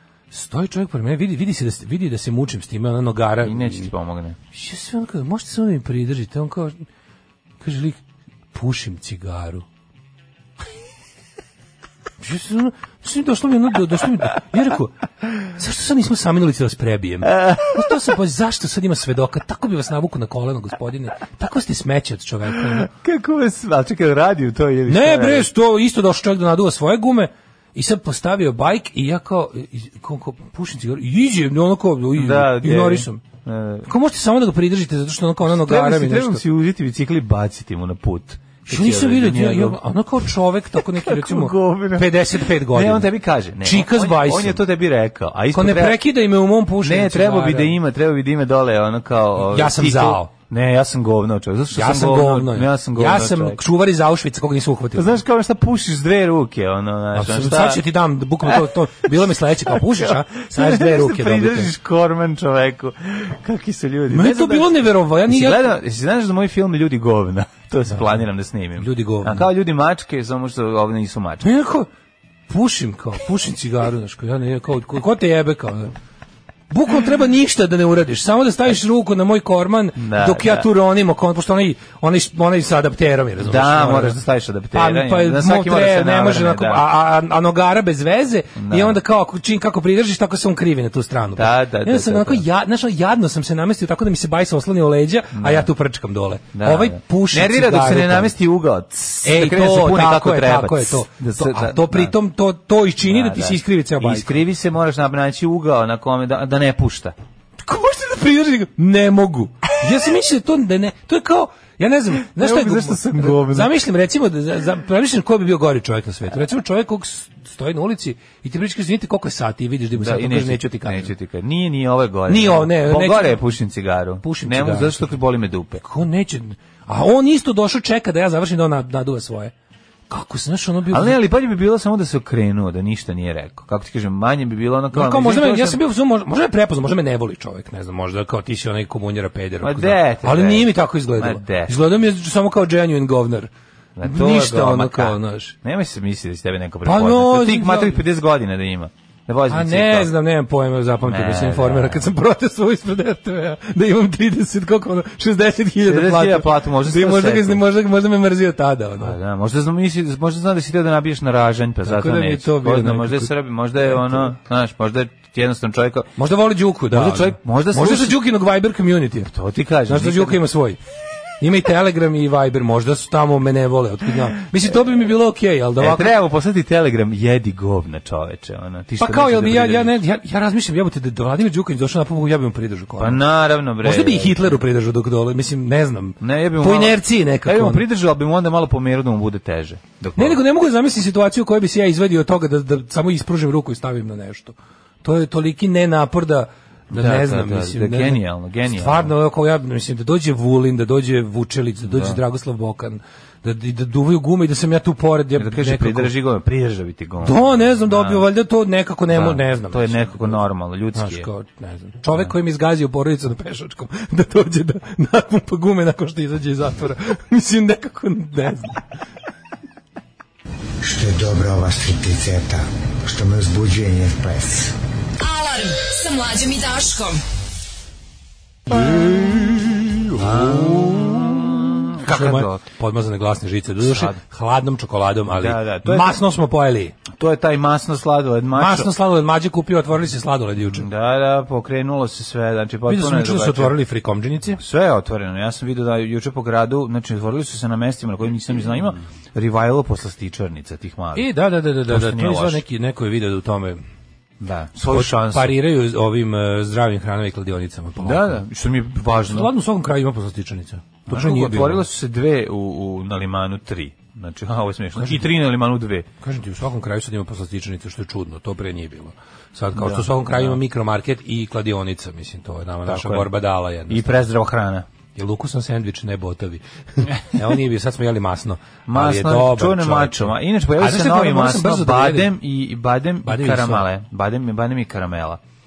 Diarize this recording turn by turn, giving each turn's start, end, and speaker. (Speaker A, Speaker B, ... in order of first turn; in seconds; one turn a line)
Speaker A: 0.3-3.9
Speaker B: 3.4-4.4
Speaker A: 4.5-6.8
Speaker A: 7.6-8.0
Speaker A: 8.5-9.7
Speaker A: 12.2-22.9
Speaker B: 17.3-17.9
Speaker B: 22.6-25.5
Speaker A: 24.9-33.2
Speaker B: 32.1-33.9
Speaker A: 33.9-36.4
Speaker B: 35.5-39.8
Speaker A: 38.7-44.6
Speaker B: 40.8-46.0
Speaker A: 45.5-47.8
Speaker B: 46.8-53.6
Speaker A: 49.5-50.3
Speaker A: 51.7-55.2
Speaker B: 55.0-57.8
Speaker A: 57.1-61.7
Speaker B: 58.5-58.7
Speaker B: 59.7-71.5
Speaker A: 64.1-65.7
Speaker A: 67.9-68.2
Speaker A: 68.8-69.5
Speaker A: 71.4-71.9
Speaker A: 72.5-75.9
Speaker A: 76.7-84.2
Speaker B: 80.0-80.7
Speaker B: 83.4-86.8
Speaker A: 84.7-98.3
Speaker B: 88.6-89.0
Speaker B: 91.3-92.5
Speaker B: 95.3-95.7
Speaker B: 96.5-102.1
Speaker A: 99.2-104.4
Speaker B: 103.0-107.2
Speaker A: 107.6-121.1
Speaker B: 112.2-113.7
Speaker B: 120.0-125.8
Speaker A: 122.3-123.4
Speaker A: 124.2-125.2
Speaker A: 125.8-129.5
Speaker A: 130.1-131.2
Speaker B: 130.9-135.8
Speaker A: 134.9-143.5
Speaker B: 139.6-141.8
Speaker B: 144.0-150.1
Speaker A: 144.0-145.5
Speaker A: 146.8-148.0
Speaker A: 149.5-159.2
Speaker B: 151.1-152.1
Speaker B: 155.8-157.6
Speaker B: 159.0-166.1
Speaker A: 161.8-164.4
Speaker A: 166.2-169.3
Speaker B: 166.9-168.2
Speaker B: 169.3-170.4
Speaker A: 169.9-170.8
Speaker A: 171.4-176.1
Speaker B: 175.8-180.0
Speaker A: 179.0-183.2
Speaker B: 183.0-184.6
Speaker A: 183.8-187.8
Speaker B: 186.2-190.4
Speaker A: 190.2-206.1
Speaker B: 196.9-199.1
Speaker B: 201.8-202.2
Speaker B: 205.4-208.2
Speaker A: 207.2-218.8
Speaker B: 209.1-211.3
Speaker C: 220.8-224.7
Speaker D: 225.2-227.2
Speaker B: 228.7-232.6
Speaker A: 230.2-231.2
Speaker A: 232.0-236.9
Speaker B: 233.8-234.2
Speaker B: 235.3-236.2
Speaker B: 237.1-238.9
Speaker A: 238.6-240.9
Speaker B: 240.7-243.8
Speaker A: 242.9-244.6
Speaker B: 244.6-251.3
Speaker A: 251.2-253.8
Speaker B: 251.8-252.6
Speaker B: 254.4-255.6
Speaker A: 254.9-258.4
Speaker B: 258.0-259.5
Speaker A: 259.3-261.9
Speaker B: 261.1-266.1
Speaker A: 265.0-265.3
Speaker A: 266.2-274.1
Speaker B: 269.8-270.6
Speaker B: 272.9-273.3
Speaker B: 273.9-274.9
Speaker A: 275.1-282.3
Speaker B: 278.9-285.4
Speaker A: 283.2-283.9